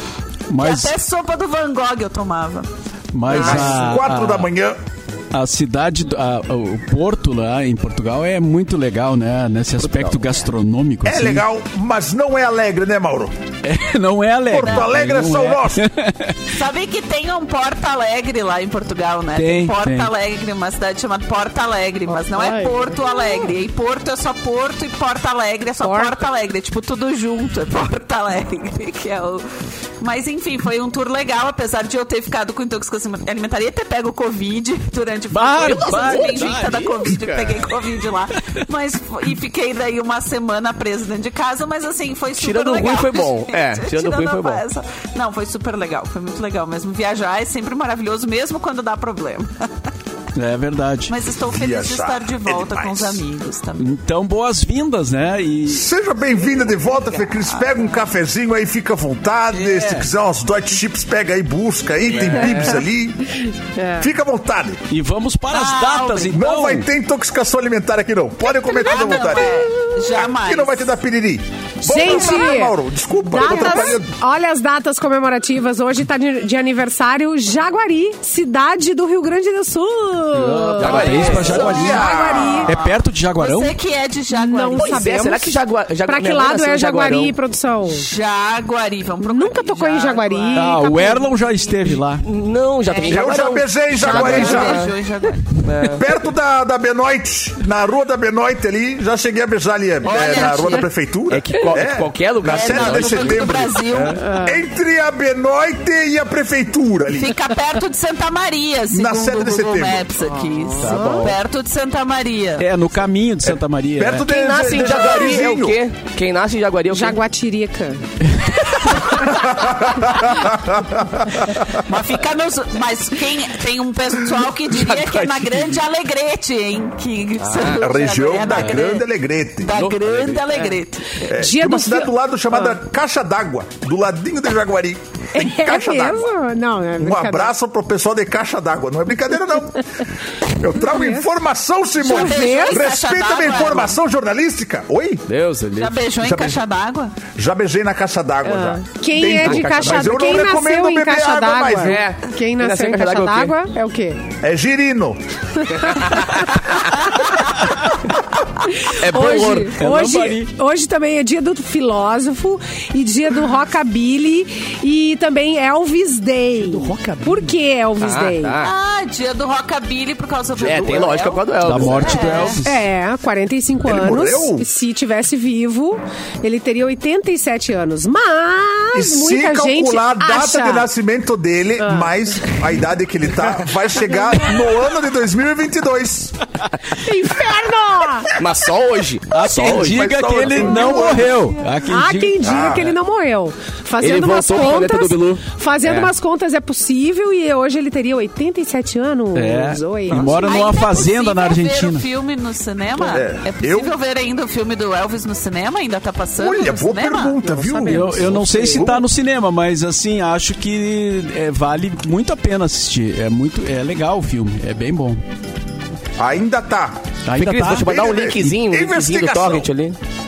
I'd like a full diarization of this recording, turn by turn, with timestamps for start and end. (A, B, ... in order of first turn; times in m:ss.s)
0:00.5-0:01.0 A
0:00.6-0:02.7 B
0:03.1-0:04.5 A
0:03.3-0:04.8 C
0:03.3-0:03.6 B
0:05.3-0:11.4 A
0:09.8-0:10.3 D
0:11.0-0:13.3 C
0:13.6-0:16.6 A
0:14.5-0:15.8 C
0:14.6-0:14.9 B
0:16.6-0:29.5 B
0:19.4-0:20.1 A
0:22.1-0:23.5 E
0:25.8-0:26.2 E
0:30.0-0:49.6 B
0:35.3-0:36.9 A
0:35.6-0:37.6 D
0:42.4-0:44.6 D
0:50.4-0:51.2 A
0:51.1-0:53.9 B
0:51.5-0:53.2 C
0:53.8-0:55.8 A
0:55.7-1:03.4 C
0:57.2-0:58.0 B
0:59.5-1:00.1 A
1:02.1-1:02.8 D
1:03.8-1:04.1 E
1:04.0-1:04.8 C
1:04.9-1:06.9 A
1:05.5-1:06.5 B
1:06.3-1:14.1 C
1:08.7-1:10.9 B
1:11.8-1:22.7 E
1:20.3-1:22.1 A
1:20.7-1:22.0 D
1:21.0-1:22.0 B
1:21.4-1:22.8 C
1:22.6-1:23.8 A
1:22.7-1:25.1 B
1:24.3-1:28.1 E
1:24.8-1:27.4 D
1:27.9-1:32.0 B
1:29.2-1:30.8 E
1:30.5-1:32.2 A
1:32.1-1:35.0 D
1:32.9-1:33.2 B
1:33.0-1:34.9 C
1:33.9-1:35.6 B
1:35.6-1:36.0 D
1:35.8-1:47.4 C
1:40.0-1:40.9 B
1:41.3-1:44.2 D
1:42.5-1:44.3 B
1:44.2-1:44.6 E
1:47.1-1:52.7 B
1:48.9-1:50.1 C
1:50.3-1:51.3 E
1:50.8-1:51.4 D
1:52.6-1:54.3 A
1:53.5-1:55.8 C
1:54.2-1:57.2 D
1:56.9-1:58.0 E
1:58.3-1:58.6 A
1:59.3-2:01.8 C
2:01.8-2:09.0 B
2:04.7-2:05.8 D
2:07.4-2:07.8 D
2:07.8-2:09.8 C
2:08.5-2:08.8 D
2:09.6-2:11.3 B
2:09.7-2:10.5 D
2:11.3-2:12.8 E
2:11.3-2:16.3 C
2:15.3-2:17.5 E
2:17.0-2:25.2 C
2:20.8-2:21.3 E
2:22.0-2:22.8 E
2:22.0-2:24.0 B
2:25.3-2:26.0 D
2:25.8-2:27.2 B
2:26.2-2:26.6 C
2:27.4-2:32.0 C
2:28.4-2:34.2 E
2:29.4-2:30.2 D
2:31.8-2:33.6 D
2:34.4-2:35.2 C
2:38.8-2:48.6 E
2:38.9-2:40.4 D
2:39.8-2:40.5 A
2:46.6-2:48.8 D
2:48.6-2:52.6 B
2:50.6-2:52.6 D
2:51.6-2:52.9 A
2:52.6-3:00.9 E
2:53.8-2:54.7 C
2:58.9-3:06.4 C
3:01.8-3:02.6 E
3:07.0-3:08.3 E
3:08.4-3:10.8 D
3:09.3-3:12.5 A
3:09.8-3:11.4 C
3:11.9-3:20.4 E
3:12.4-3:13.0 C
3:14.0-3:16.1 D
3:19.3-3:22.1 A
3:20.1-3:20.5 D
3:20.2-3:27.4 B
3:23.0-3:24.0 C
3:26.4-3:29.1 C
3:27.4-3:28.9 E
3:27.9-3:35.2 A
3:36.2-3:37.1 C
3:37.3-3:37.9 A
3:37.4-3:40.0 D
3:37.8-3:39.7 C